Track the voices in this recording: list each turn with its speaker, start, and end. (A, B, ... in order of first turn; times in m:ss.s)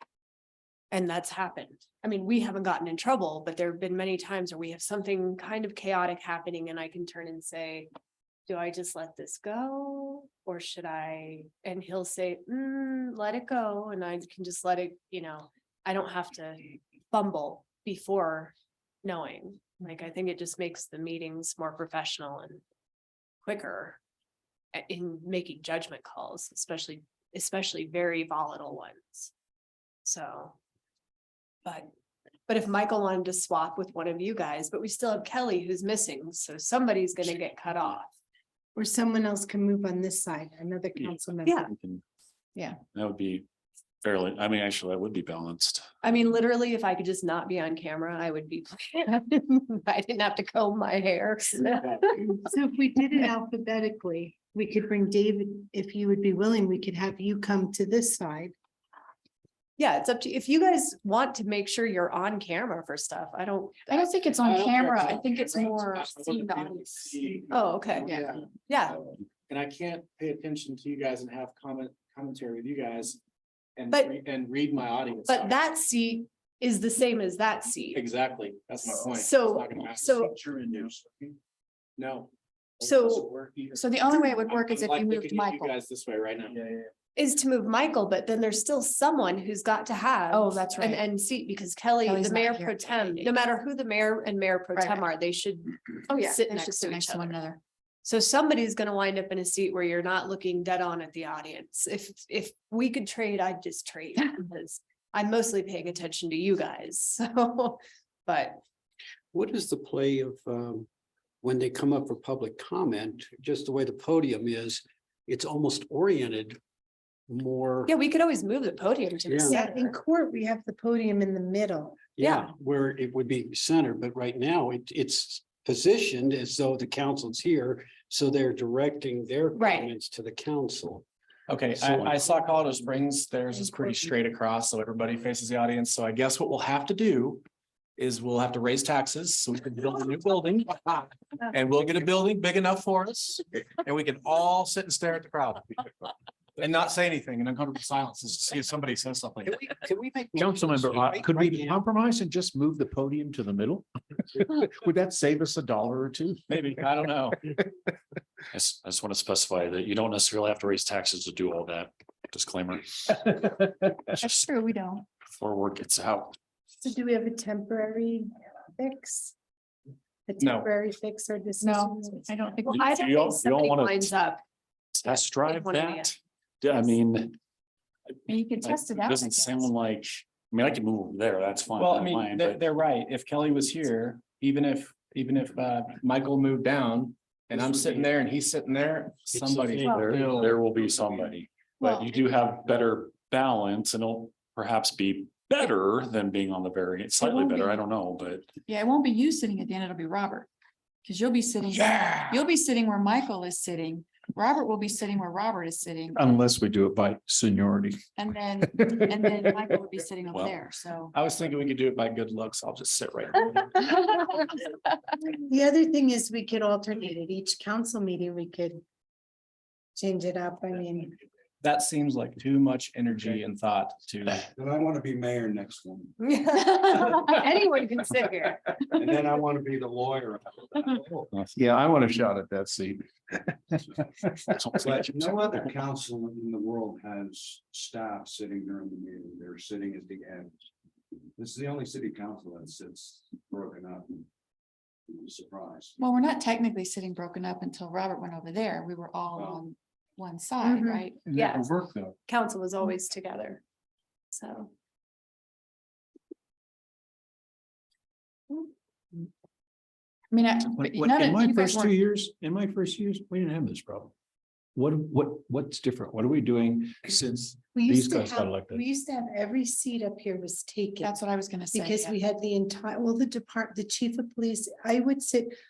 0:00.9-0:07.9 A
0:08.5-0:22.6 A
0:23.4-0:24.0 A
0:24.7-0:29.3 A
0:30.0-0:30.5 A
0:32.5-0:38.1 A
0:38.8-0:41.7 B
0:41.7-0:42.0 C
0:42.5-0:42.8 D
0:42.9-0:43.4 C
0:44.0-0:45.9 C
0:46.0-0:52.3 A
0:52.1-0:58.5 B
0:59.8-1:04.0 A
1:03.9-1:07.3 D
1:04.4-1:08.4 E
1:07.5-1:08.1 A
1:08.0-1:08.3 D
1:08.7-1:09.0 A
1:09.5-1:13.2 E
1:13.8-1:15.6 E
1:15.3-1:18.0 A
1:17.9-1:21.4 E
1:18.8-1:20.3 A
1:22.0-1:26.9 E
1:22.8-1:23.3 A
1:23.7-1:25.7 D
1:27.2-1:37.3 A
1:30.3-1:31.0 D
1:32.0-1:33.3 D
1:34.7-1:35.0 D
1:36.1-1:37.6 D
1:38.0-1:48.6 A
1:49.3-1:50.9 F
1:51.4-1:56.6 F
1:57.3-1:57.9 F
1:57.9-1:59.9 A
1:59.3-1:59.6 F
1:59.4-2:02.0 B
2:02.1-2:11.0 F
2:02.2-2:02.5 A
2:09.5-2:09.9 A
2:11.5-2:17.4 E
2:11.8-2:12.2 F
2:18.0-2:25.9 E
2:26.6-2:29.8 E
2:30.0-2:30.3 F
2:30.3-2:36.5 G
2:36.5-2:37.5 E
2:38.5-2:43.5 C
2:44.2-2:45.0 D
2:45.3-2:46.4 C
2:46.8-2:49.3 B
2:50.3-2:52.4 B
2:50.4-2:50.7 E
2:51.6-2:53.0 D
2:52.7-2:54.4 A
2:52.7-2:54.1 C
2:54.9-2:57.4 C
2:55.1-2:56.1 A
2:58.3-2:59.7 D
2:58.6-3:02.6 C
3:01.8-3:10.6 E
3:09.7-3:10.4 F
3:09.8-3:10.1 D
3:10.2-3:18.5 C
3:11.8-3:12.1 D
3:17.2-3:17.8 D
3:18.7-3:20.5 D
3:21.0-3:26.3 D
3:26.1-3:28.0 G
3:28.2-3:31.1 D
3:30.3-3:30.6 C
3:31.1-3:33.9 E
3:35.4-3:38.8 B
3:39.9-3:41.2 B
3:41.6-3:44.4 E
3:44.5-3:46.1 H
3:46.2-3:48.8 A
3:48.9-3:51.3 H
3:51.3-3:53.5 G
3:54.8-4:00.6 H
3:54.8-3:55.4 C
4:01.4-4:04.3 H
4:05.1-4:06.0 H
4:06.0-4:11.2 D
4:10.6-4:11.7 A
4:12.2-4:13.6 A
4:14.3-4:14.7 A
4:20.3-4:21.9 D
4:20.7-4:24.1 G
4:24.7-4:28.8 G
4:27.7-4:31.1 B
4:31.0-4:32.2 D
4:31.7-4:35.5 B